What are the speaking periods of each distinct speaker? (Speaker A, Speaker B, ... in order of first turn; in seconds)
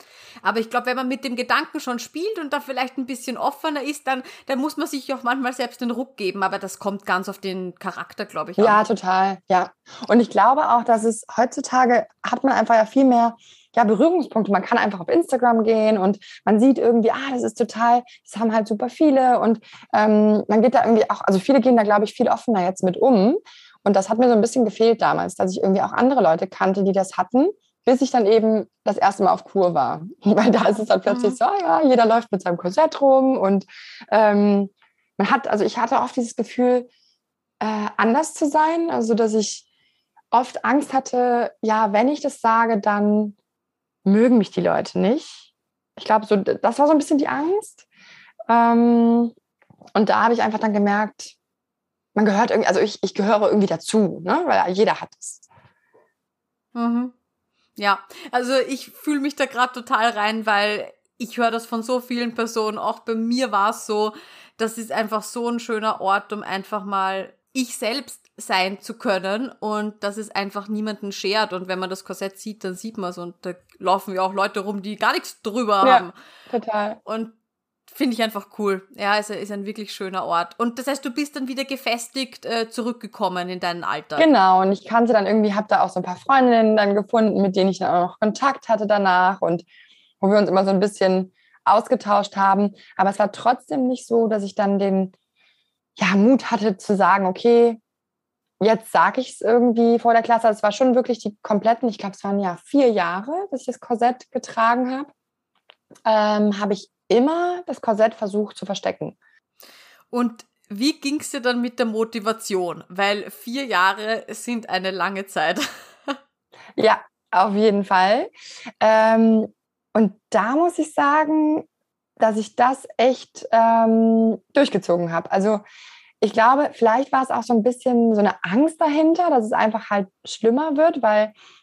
Speaker A: 0.4-8.8, 31.1-31.4, 56.7-57.1, 57.8-76.1, 77.0-77.3, 77.9-84.3, 110.1-116.2
Speaker B: 8.6-36.9, 37.6-39.6, 40.3-43.4, 44.0-47.8, 48.5-49.3, 49.9-51.3, 52.1-55.4, 75.8-77.0, 84.2-89.7, 90.2-95.1, 96.0-97.8, 98.6-105.1, 106.0-109.2, 116.8-118.3, 118.8-121.7, 122.2-125.6, 126.2-131.3